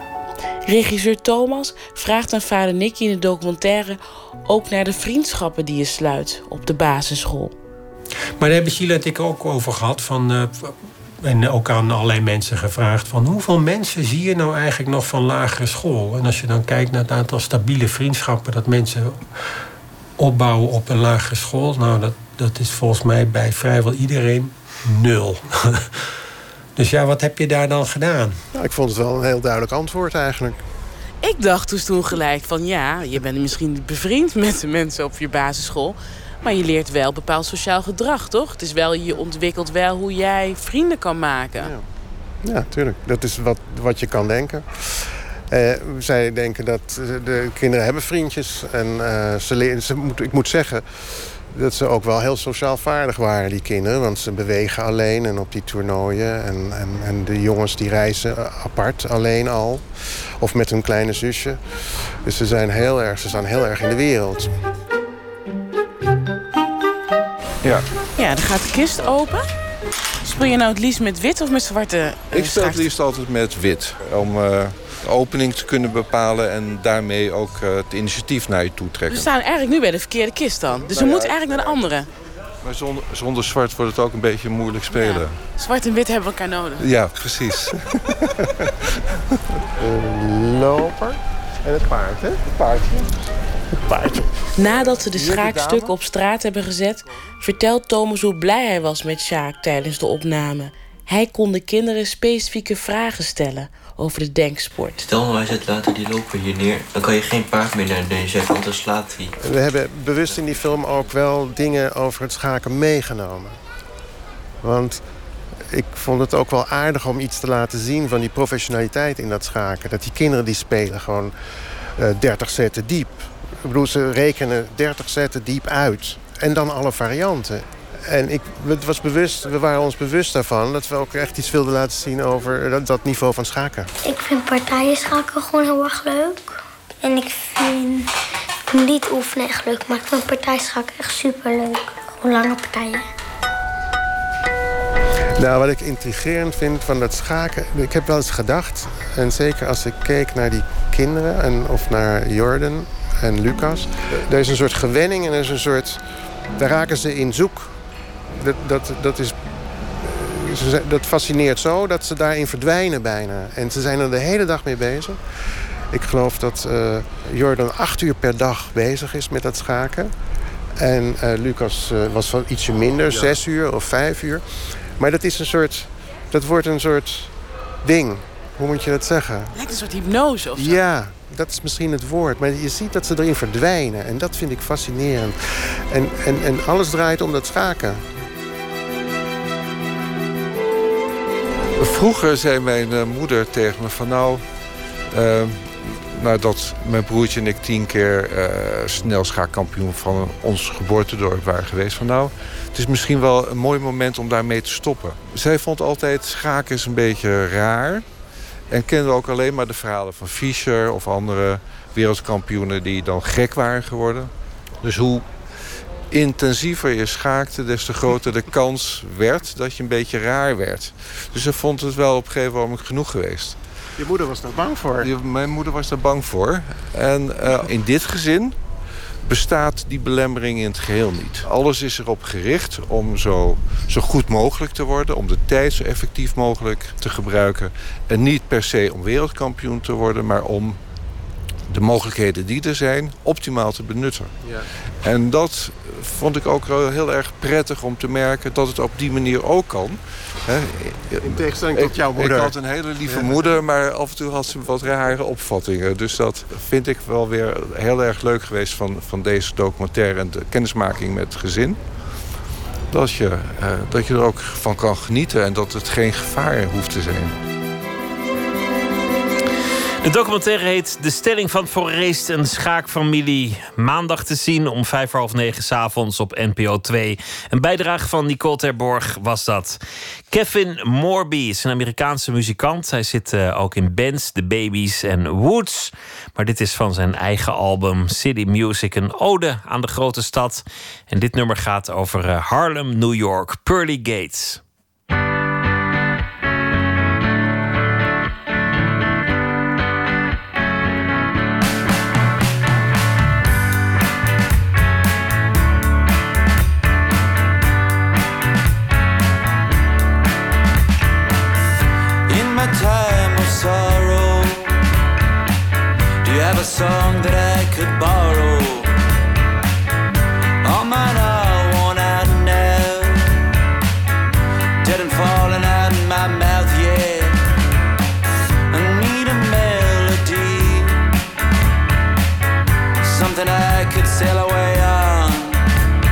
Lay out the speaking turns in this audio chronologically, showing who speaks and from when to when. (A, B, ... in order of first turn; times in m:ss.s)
0:00.6-0:07.5 A
0:08.4-0:19.6 B
0:20.2-0:26.1 B
0:26.8-0:28.4 B
0:28.5-0:30.6 C
0:31.2-0:41.8 A
0:41.6-0:41.8 C
0:42.4-1:04.6 C
1:08.1-1:09.5 A
1:10.2-1:12.9 A
1:12.3-1:19.3 D
1:19.1-1:22.1 A
1:20.9-1:21.7 C
1:21.0-1:21.3 D
1:22.6-1:25.4 D
1:24.9-1:26.8 A
1:26.8-1:27.8 D
1:29.8-1:33.1 C
1:33.7-1:35.9 C
1:34.5-1:45.0 A
1:45.0-1:49.4 E
1:49.4-1:53.6 C
1:54.6-1:55.1 C
1:55.7-2:13.9 C
2:14.0-2:18.1 F
2:18.7-2:23.1 F
2:25.4-2:37.8 C
2:38.3-2:50.1 C
2:50.8-2:59.5 C
2:53.0-2:53.4 D
2:59.5-3:00.8 A
3:00.6-3:08.0 C
3:11.8-3:14.4 D
3:15.1-3:28.0 D
3:28.7-3:34.3 D
3:34.8-3:35.3 D
3:36.1-3:43.6 D
3:44.0-3:45.1 C
3:45.0-3:48.6 D
3:49.2-4:00.8 D
4:01.7-4:04.4 D
4:04.4-4:04.7 C
4:05.0-4:21.8 D
4:11.2-4:13.5 C
4:22.9-4:27.3 D
4:30.0-4:39.8 G
4:40.3-4:54.6 G
5:12.3-5:14.7 H
5:16.2-5:18.9 H
5:20.6-5:23.3 H
5:24.8-5:27.5 H
5:28.7-5:31.0 H
5:33.0-5:35.6 H